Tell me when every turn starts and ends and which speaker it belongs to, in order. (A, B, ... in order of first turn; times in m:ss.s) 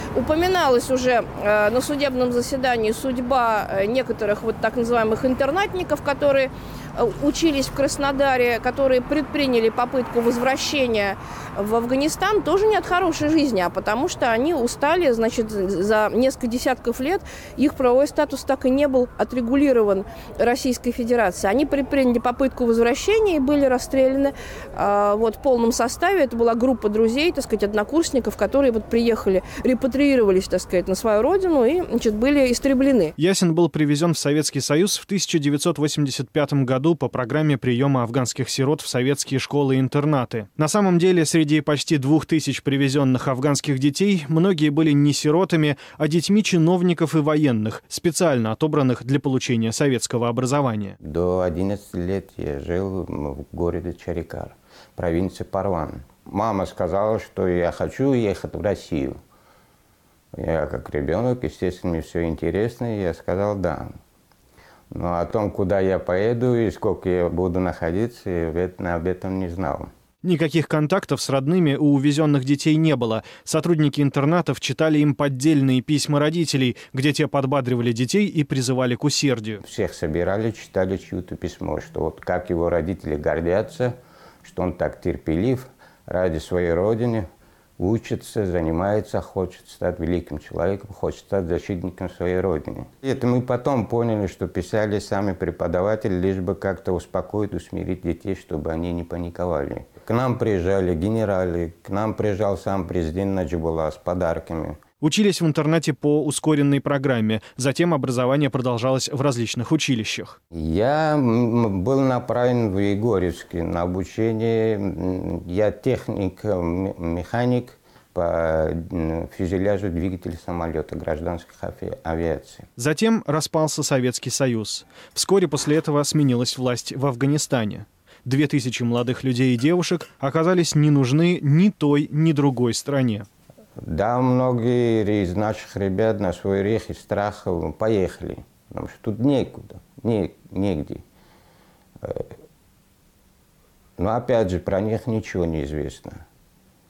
0:00.1-0:33.1 A
0:33.2-0:51.0 B
0:51.0-0:59.2 C
1:00.3-1:03.9 C
1:04.9-1:09.9 C
1:10.2-1:19.6 B
1:19.6-1:27.2 C
1:27.8-1:44.8 C
1:45.0-1:50.4 B
1:50.5-2:02.7 C
2:02.8-2:13.3 B
2:13.8-2:21.0 C
2:22.0-2:22.3 C
2:24.0-2:26.2 C